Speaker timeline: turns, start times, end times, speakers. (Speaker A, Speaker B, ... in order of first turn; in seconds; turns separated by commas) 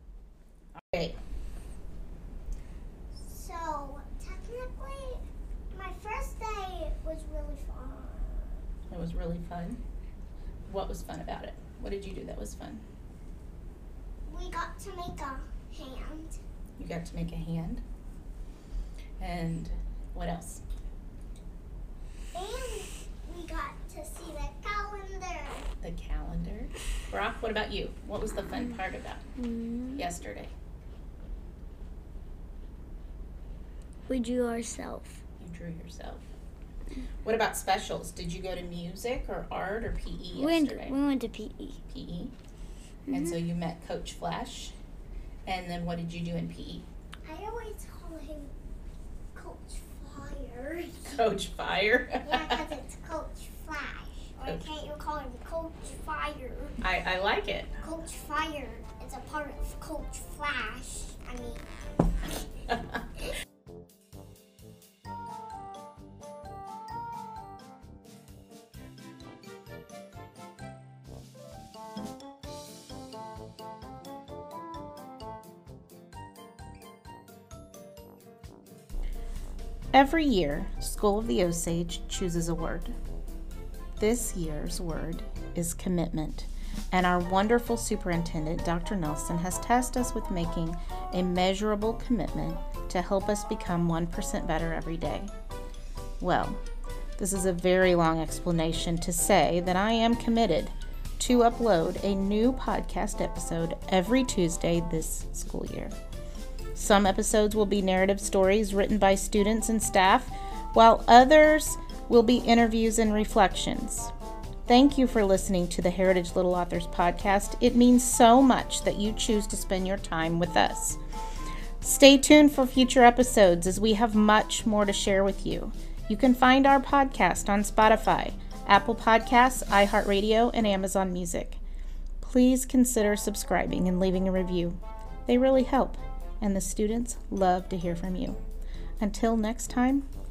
Speaker A: 0.8-1.2, Speaker B: 3.2-8.6, Speaker A: 8.9-9.8, Speaker A: 10.7-12.8, Speaker B: 14.3-16.4, Speaker A: 16.8-17.8, Speaker A: 19.2-20.6, Speaker B: 22.3-25.7, Speaker A: 25.8-29.3, Speaker C: 29.4-30.1, Speaker A: 30.0-30.5, Speaker C: 34.1-35.1, Speaker A: 35.4-36.2, Speaker A: 37.2-41.0, Speaker C: 40.4-41.8, Speaker A: 41.9-42.3, Speaker C: 43.1-43.4, Speaker A: 43.1-44.8, Speaker A: 45.5-46.9, Speaker B: 47.2-48.5, Speaker B: 49.4-51.1, Speaker A: 51.0-52.7, Speaker B: 52.2-56.6, Speaker A: 54.5-54.7, Speaker A: 56.8-57.7, Speaker B: 57.8-61.6, Speaker A: 79.9-82.9, Speaker A: 84.0-95.3, Speaker A: 96.2-96.6, Speaker A: 97.2-105.9, Speaker A: 106.8-114.1, Speaker A: 114.7-121.0, Speaker A: 121.8-131.6, Speaker A: 132.2-138.4, Speaker A: 139.0-140.1